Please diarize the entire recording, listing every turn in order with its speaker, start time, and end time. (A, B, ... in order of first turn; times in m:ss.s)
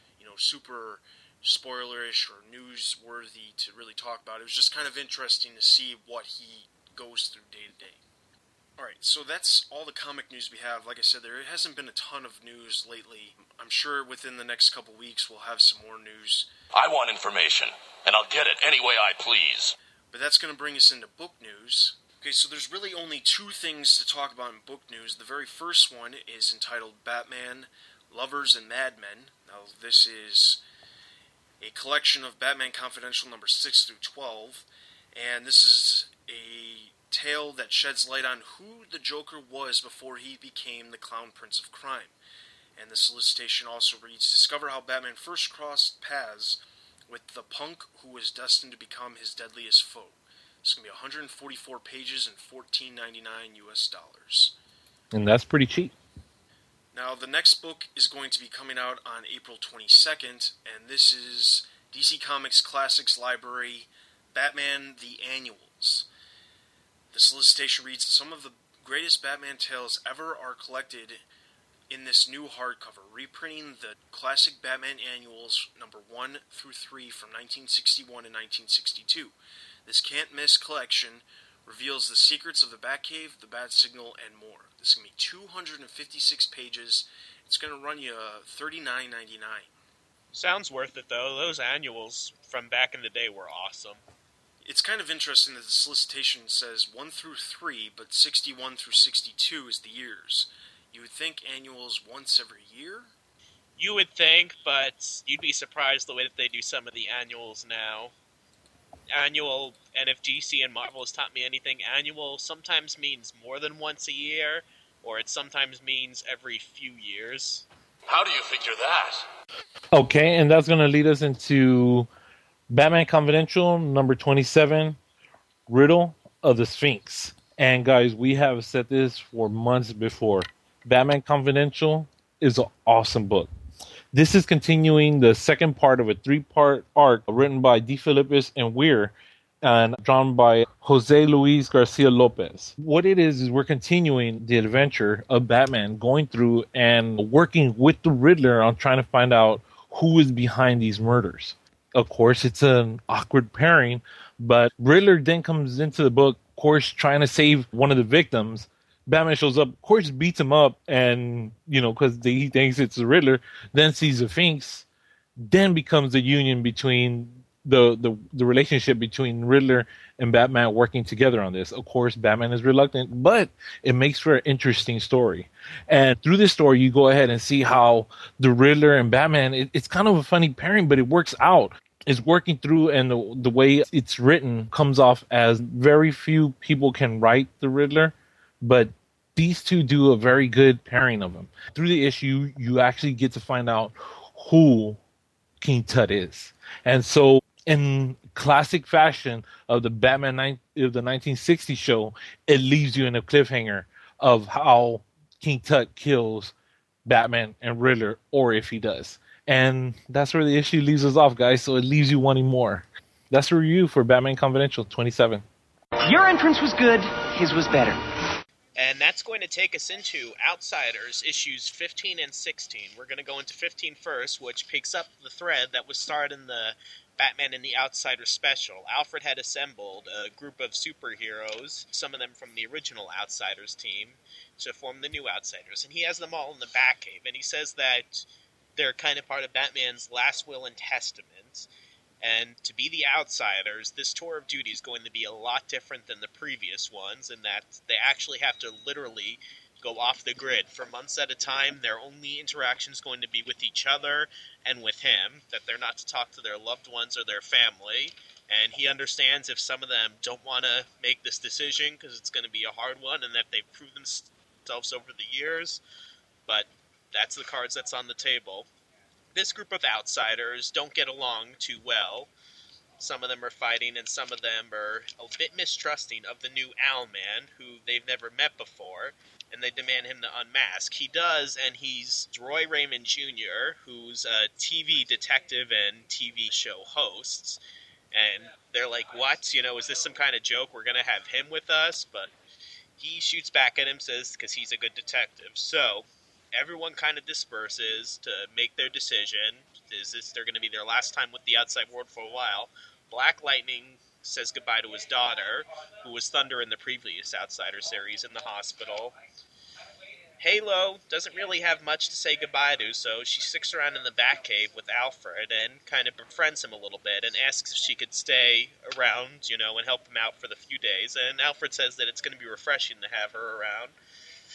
0:00.2-0:08.0 A
0:08.8-0:16.5 A
0:16.7-0:19.8 B
0:20.1-0:30.6 A
0:31.6-0:42.2 A
0:42.8-0:54.5 A
0:55.1-0:56.0 C
0:56.9-1:06.1 A
1:07.1-1:11.2 A
1:11.9-1:19.4 A
1:19.9-1:29.7 A
1:30.3-1:34.0 D
1:34.6-1:43.1 A
1:43.8-1:48.1 D
1:49.1-1:57.6 D
1:58.1-1:59.2 B
1:59.9-2:02.1 C
2:02.7-2:05.0 C
2:05.7-2:13.5 C
2:14.1-2:44.9 C
2:45.4-3:15.0 C
3:15.6-3:26.5 C
3:27.1-3:35.4 C
3:36.0-3:38.0 E
3:38.8-4:01.7 D
4:02.2-4:25.8 D
4:26.5-4:28.7 D
4:29.4-4:32.3 D
4:33.0-4:47.6 D
4:48.1-4:52.3 D
4:53.0-5:09.2 D
5:10.4-5:24.0 D